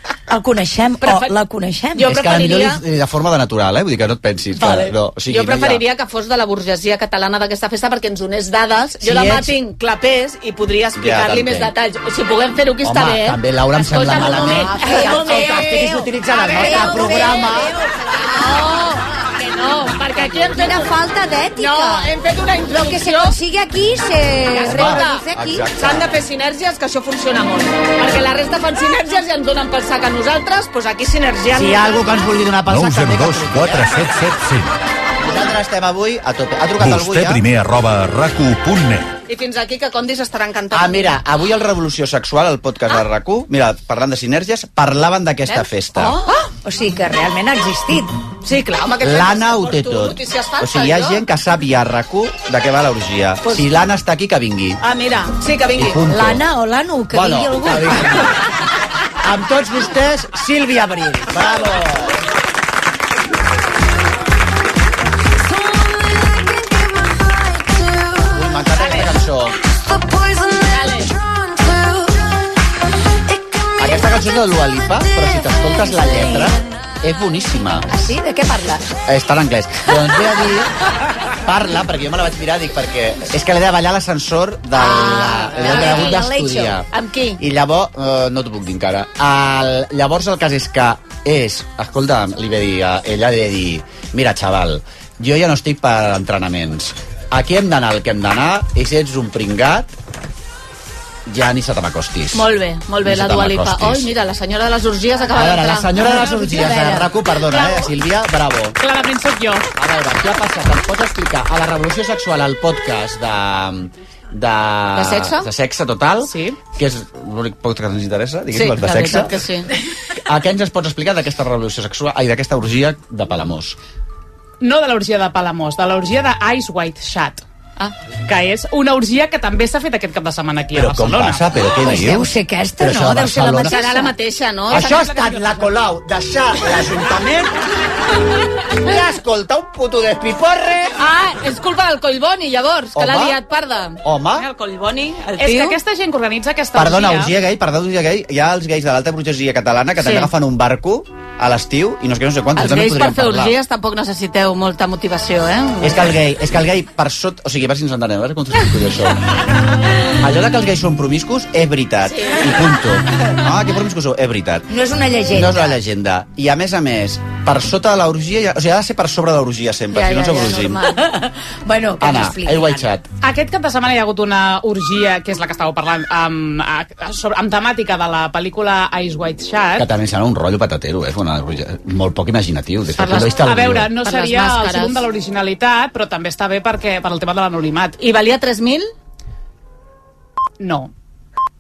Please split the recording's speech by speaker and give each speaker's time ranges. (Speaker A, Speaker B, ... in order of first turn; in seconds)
Speaker A: 0.3-2.3, 14.5-18.9, 20.1-22.1, 22.7-25.7, 46.0-48.2, 56.1-58.2, 65.8-68.3, 70.1-70.7, 71.6-71.9, 77.9-78.9, 84.8-86.8, 106.0-107.1, 131.8-134.1, 164.7-165.7, 170.9-172.9
Speaker B: 1.0-1.3, 2.0-2.8, 5.3-17.5, 18.3-20.9, 21.6-23.4, 24.5-25.2, 25.8-32.1, 39.3-41.1, 48.4-51.2, 54.8-56.0, 68.8-69.1, 70.7-71.1, 85.6-86.2, 86.9-87.4, 102.3-106.2, 115.0-115.5, 118.5-119.7, 133.7-135.2, 141.0-145.8, 150.0-150.3, 152.6-156.2, 162.1-162.5, 169.9-171.0, 182.9-183.4, 184.0-185.0, 188.0-188.9
Speaker C: 2.0-5.8, 9.0-9.5, 11.0-11.7, 12.8-17.7, 24.6-26.1, 31.5-34.0, 35.2-37.5, 40.7-46.2, 49.0-54.8, 55.8-56.5, 57.1-58.4, 59.2-62.2, 68.3-69.6, 73.8-77.9, 79.1-80.7, 81.3-86.9, 87.4-99.9, 101.3-102.5, 103.0-104.1, 105.3-108.8, 109.8-119.4, 120.2-123.8, 130.8-133.8, 134.7-137.6, 138.8-141.0, 142.9-143.4, 144.0-144.5, 146.8-153.6, 155.8-159.2, 160.2-164.7, 165.3-170.8, 172.0-173.1, 179.8-183.9
Speaker D: 32.6-34.7, 36.8-39.1
Speaker E: 108.8-109.7, 116.2-116.6, 124.6-127.5, 128.3-131.5, 134.9-135.6, 145.4-147.4, 173.2-179.9, 183.4-188.0, 190.6-190.9